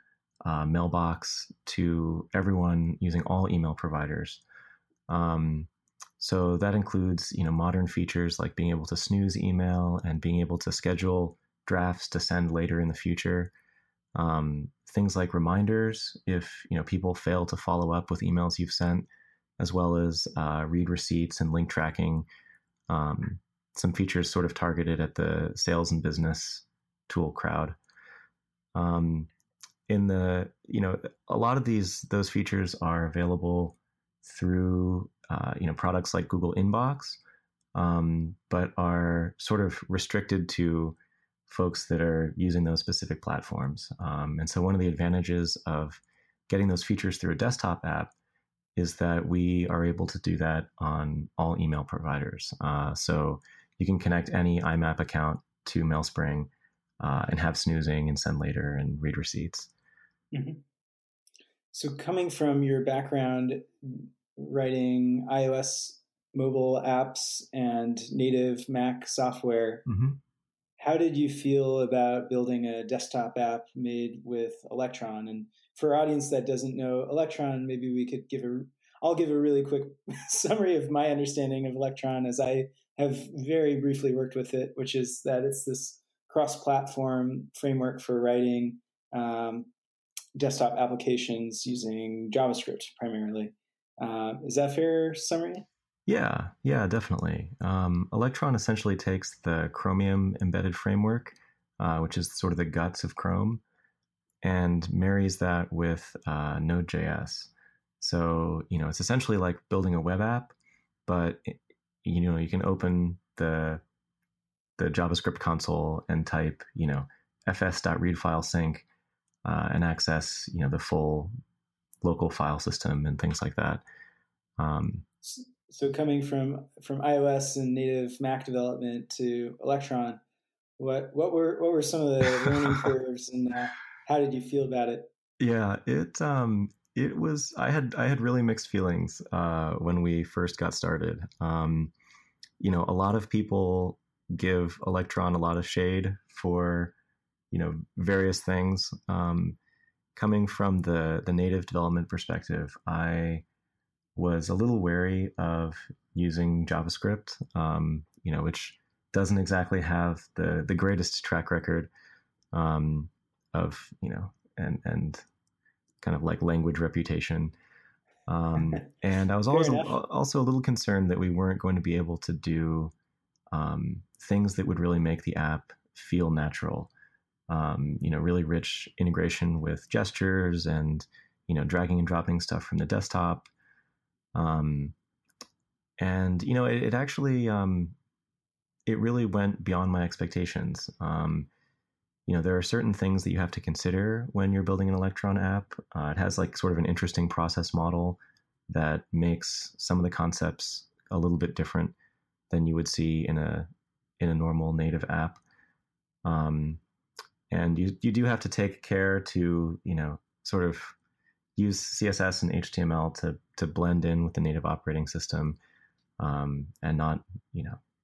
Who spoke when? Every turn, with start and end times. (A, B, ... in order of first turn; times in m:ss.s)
0:00.4-0:04.4 A
0:05.1-0:13.5 A
0:14.1-0:19.1 A
0:19.6-0:22.3 A
0:22.9-0:27.8 A
0:28.7-0:29.3 A
0:29.9-0:37.2 A
0:37.7-0:41.0 A
0:41.5-0:48.1 A
0:48.8-0:59.7 A
1:00.3-1:00.6 B
1:01.7-1:09.8 B
1:09.9-1:10.2 A
1:10.8-1:29.7 B
1:30.3-1:35.6 B
1:36.1-1:43.6 A
1:44.4-1:50.5 A
1:51.1-1:53.8 A
1:54.8-1:58.8 A
1:59.4-2:01.3 A
2:02.0-2:03.8 A
2:04.6-2:05.0 A
2:05.2-2:10.2 B
2:10.8-2:15.1 B
2:12.4-2:12.9 A
2:15.4-2:21.9 A
2:22.6-2:26.9 A
2:27.5-2:29.6 A
2:30.1-2:33.4 A
2:34.2-2:41.9 A
2:42.5-2:45.2 A
2:46.0-2:47.5 A
2:48.3-2:52.9 A
2:48.6-2:48.9 B
2:49.5-2:50.0 B
2:53.5-2:56.9 A
2:57.5-3:03.5 A
3:04.3-3:04.9 A
3:06.0-3:08.0 A
3:08.8-3:11.5 A
3:12.3-3:21.9 A
3:22.5-3:23.7 A
3:24.2-3:25.4 A
3:26.2-3:26.8 A
3:27.5-3:31.0 A
3:31.6-3:35.6 A
3:36.2-3:37.8 A